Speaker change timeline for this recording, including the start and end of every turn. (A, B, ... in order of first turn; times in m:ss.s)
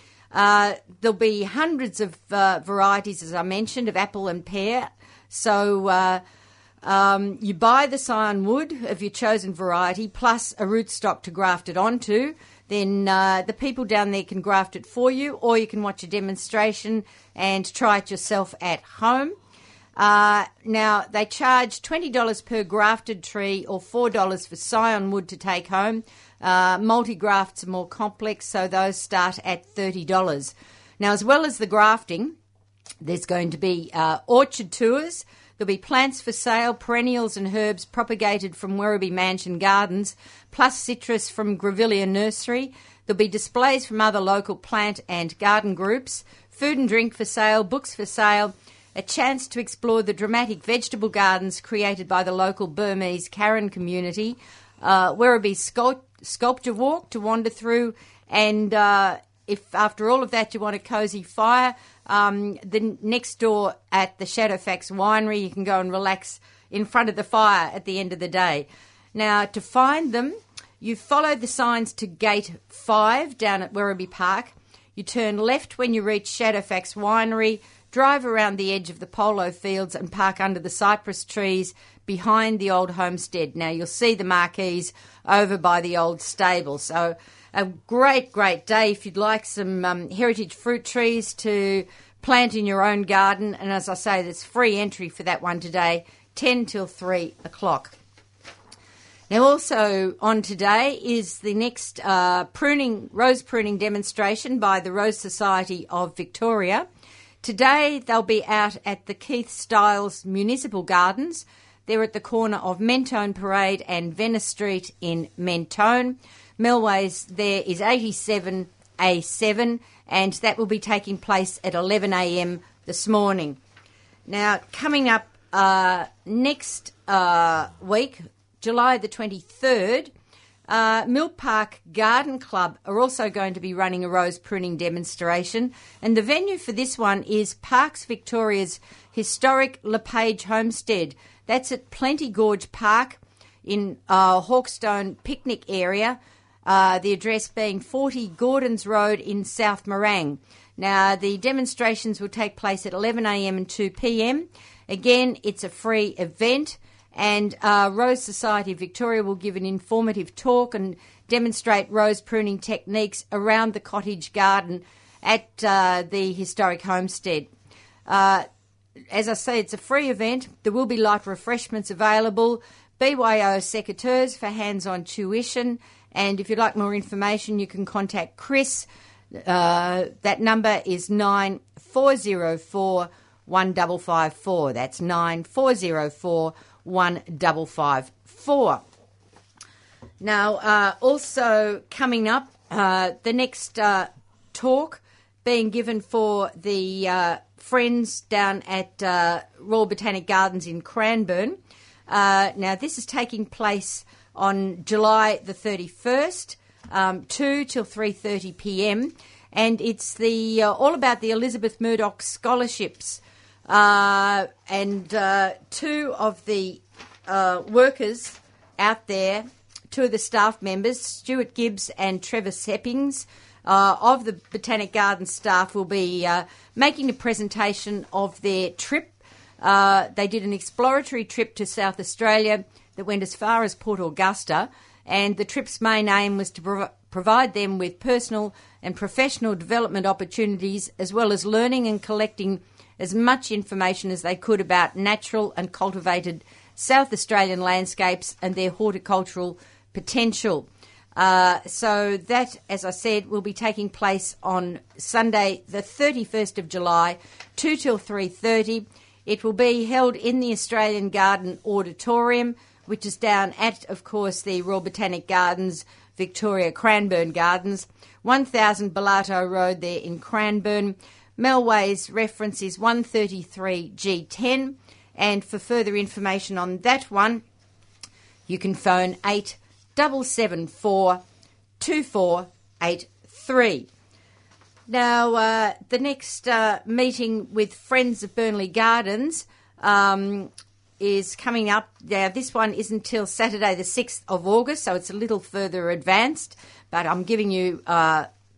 0:00.3-0:06.2 A
0:06.8-0:19.4 A
0:20.0-0:32.4 A
0:33.0-1:37.9 A
1:39.3-1:46.9 A
1:47.4-2:03.6 A
2:04.3-2:10.1 A
2:10.7-2:47.5 A
2:48.1-2:48.5 A
2:49.1-3:08.8 A
3:10.2-4:37.4 A
4:38.5-4:41.2 A
4:41.8-4:43.9 A
4:44.9-4:58.3 A